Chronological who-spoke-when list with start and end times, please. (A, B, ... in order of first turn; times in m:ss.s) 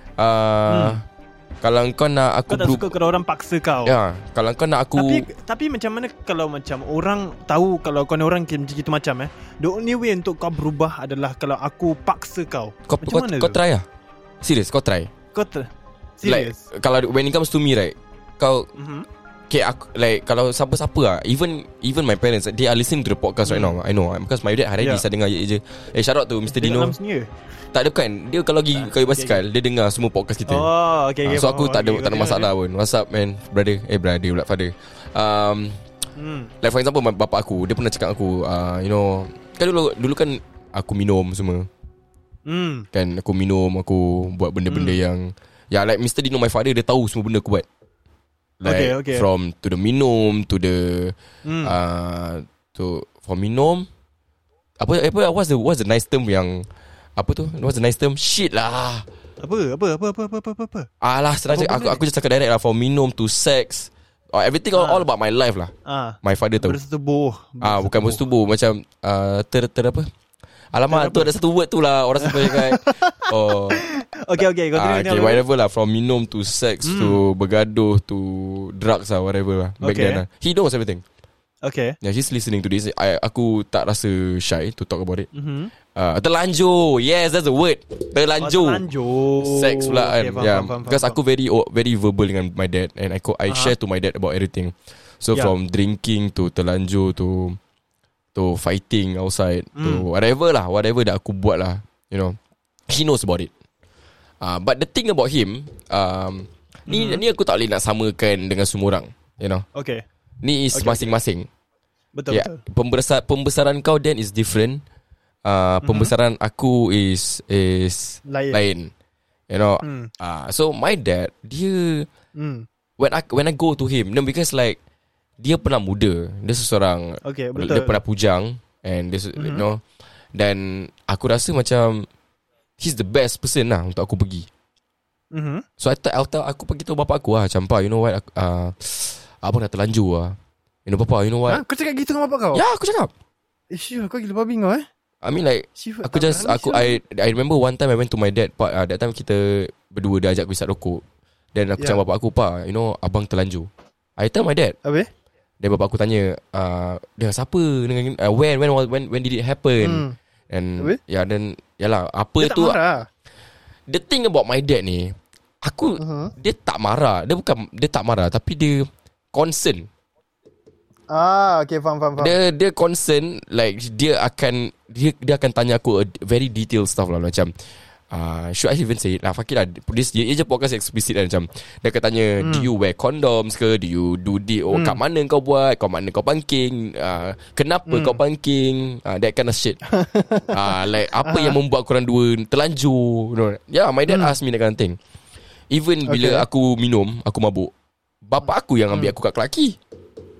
0:00.2-0:01.0 A
0:00.7-0:01.0 B
0:01.6-0:02.9 A
0:02.5-0:03.9 B
0:03.8-0:05.3 A
0:05.0-0:13.6 B
0:12.9-0:13.8 A
0:14.4-0:15.1 A
0:15.4-0:16.6 B
0:16.2-0:18.7 A
0:18.8-0:19.1 B
0:19.5-0:27.0 A
0:23.5-0:23.8 B
0:26.5-0:27.3 B
0:27.7-0:30.7 A
0:28.8-0:29.4 B
0:30.5-0:32.5 B
0:31.2-0:35.8 A
0:36.2-0:36.5 B
0:36.6-0:41.7 A
0:42.5-0:42.9 B
0:42.9-0:47.7 A
0:44.7-0:45.0 B
0:48.6-0:53.9 A
0:48.6-0:49.3 B
0:51.4-0:51.8 B
0:54.8-0:59.1 A
0:59.4-1:00.9 B
1:01.0-1:06.8 A
1:01.5-1:02.0 B
1:04.8-1:05.1 B
1:05.9-1:08.2 B
1:07.6-1:10.1 A
1:10.7-1:21.0 A
1:10.9-1:11.3 B
1:12.2-1:13.1 B
1:13.7-1:15.4 B
1:16.8-1:17.2 B
1:19.8-1:20.2 B
1:21.6-1:22.0 B
1:22.0-1:25.3 A
1:25.3-1:25.7 B
1:26.0-1:28.8 A
1:28.4-1:31.2 B
1:29.4-1:37.6 A
1:33.5-1:33.8 B
1:38.4-1:42.4 A
1:39.8-1:40.1 B
1:42.9-1:43.5 A
1:44.4-1:49.6 A
1:46.9-1:47.2 B
1:49.8-1:50.0 B
1:50.4-1:51.5 A
1:50.7-1:51.1 B
1:52.2-1:52.6 B
1:52.3-1:54.8 A
1:55.5-1:58.9 A
1:55.8-1:56.1 B
1:58.3-1:58.6 B
1:59.5-2:02.1 A
1:59.8-2:00.1 B
2:03.0-2:04.8 A
2:05.4-2:09.8 A
2:07.2-2:08.0 B
2:09.4-2:09.6 B
2:10.4-2:12.1 A
2:12.8-2:14.5 A
2:15.3-2:15.6 B
2:15.8-2:21.6 A
2:21.5-2:22.6 C
2:22.5-2:23.1 A
2:23.7-2:24.9 C
2:25.2-2:31.0 A
2:25.8-2:27.0 C
2:31.6-2:34.8 A
2:35.6-2:42.8 A
2:39.8-2:40.2 C
2:42.4-2:43.1 C
2:43.9-2:49.9 A
2:46.0-2:46.3 C
2:51.1-2:52.4 C
2:52.2-2:57.5 A
2:58.1-3:09.8 A
3:04.7-3:05.0 C
3:07.9-3:08.2 C
3:09.9-3:10.6 C
3:10.5-3:15.0 A
3:11.2-3:11.6 C
3:14.1-3:14.3 C
3:15.7-3:17.7 A
3:16.1-3:16.4 C
3:18.2-3:19.8 A